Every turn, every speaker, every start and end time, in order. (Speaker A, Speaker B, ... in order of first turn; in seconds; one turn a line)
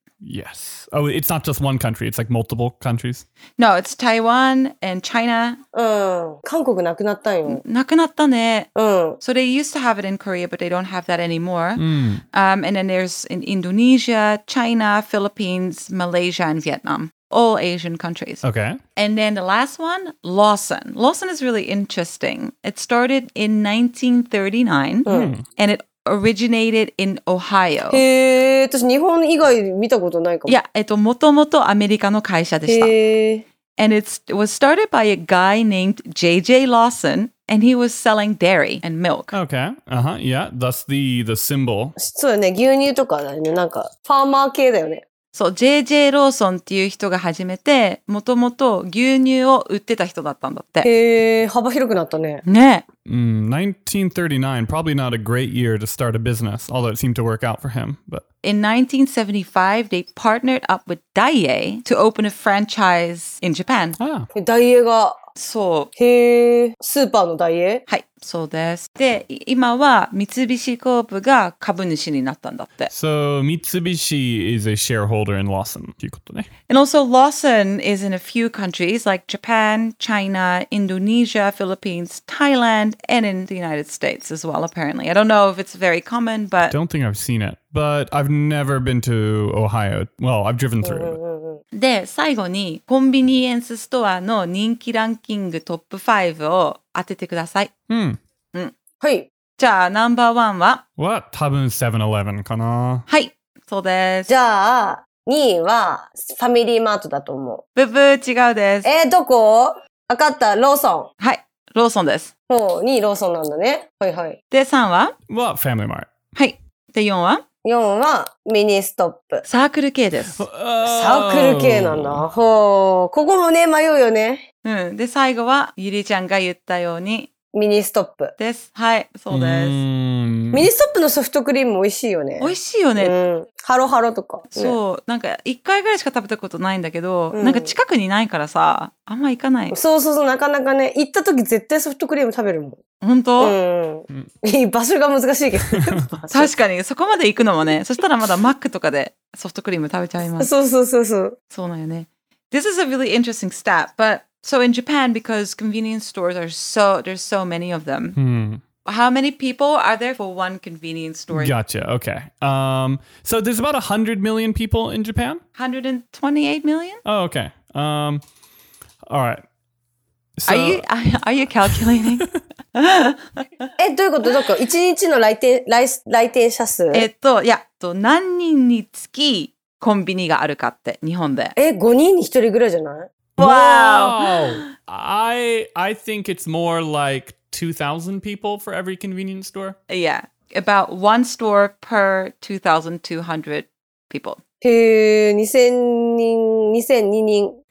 Speaker A: 0.2-3.2
Speaker B: 3.6-5.6
Speaker C: 5.7-7.6
Speaker B: 7.5-18.4
Speaker C: 8.8-9.2
Speaker A: 11.8-12.2
Speaker A: 18.4-18.8
Speaker B: 18.9-28.0
Speaker C: 25.1-25.3
Speaker A: 25.1-25.4
Speaker C: 27.9-30.6
Speaker B: 30.5-33.0
Speaker C: 32.7-33.4
Speaker B: 33.8-39.3
Speaker A: 39.3-42.0
Speaker C: 42.0-45.0
Speaker B: 45.3-50.9
Speaker C: 50.8-52.4
Speaker B: 52.4-52.8
Speaker A: 53.0-58.2
Speaker B: 58.4-64.0
Speaker A: 64.0-64.3
Speaker C: 64.3-65.2
Speaker B: 65.3-65.9
Speaker C: 66.0-67.8
Speaker B: 67.9-72.9
Speaker A: 72.9-76.5
Speaker B: 76.7-86.7
Speaker A: 86.7-91.2
Speaker C: 90.8-91.6
Speaker B: 91.7-97.7
Speaker A: 97.9-98.2
Speaker C: 99.0-99.3
Speaker B: 99.6-100.8
Speaker A: 101.0-103.0
Speaker B: 103.1-104.3
Speaker C: 104.3-107.6
Speaker B: 107.7-108.9
Speaker C: 108.8-111.1
Speaker B: 111.2-112.3
Speaker C: 112.5-114.4
Speaker B: 114.5-115.1
Speaker A: 115.3-116.1
Speaker B: 116.3-117.4
Speaker C: 117.6-119.4
Speaker B: 119.4-120.4
Speaker A: 120.3-122.2
Speaker C: 120.8-124.4
Speaker B: 124.6-127.3
Speaker C: 127.5-128.3
Speaker B: 128.4-129.8
Speaker A: 129.3-130.7
Speaker C: 130.5-134.8
Speaker B: 132.4-133.1
Speaker B: 134.5-139.8
Speaker C: 137.3-137.7
Speaker C: 139.7-142.8
Speaker B: 143.0-143.6
Speaker C: 143.4-146.5
Speaker B: 146.3-150.5
Speaker C: 150.4-151.3
Speaker B: 151.5-158.2
Speaker A: 158.2-158.6
Speaker B: 158.8-161.5
Speaker A: 161.3-165.4
Speaker B: 165.6-167.0
Speaker A: 167.0-168.2
Speaker A: 169.1-169.4
Speaker A: 170.4-170.8
Speaker B: 170.4-173.7
Speaker A: 171.7-172.2
Speaker C: 173.8-177.1
Speaker B: 176.9-181.5
Speaker C: 181.6-183.1
Speaker B: 183.4-184.7
Speaker A: 183.4-189.8
Speaker B: 189.9-194.4
Speaker C: 194.6-197.6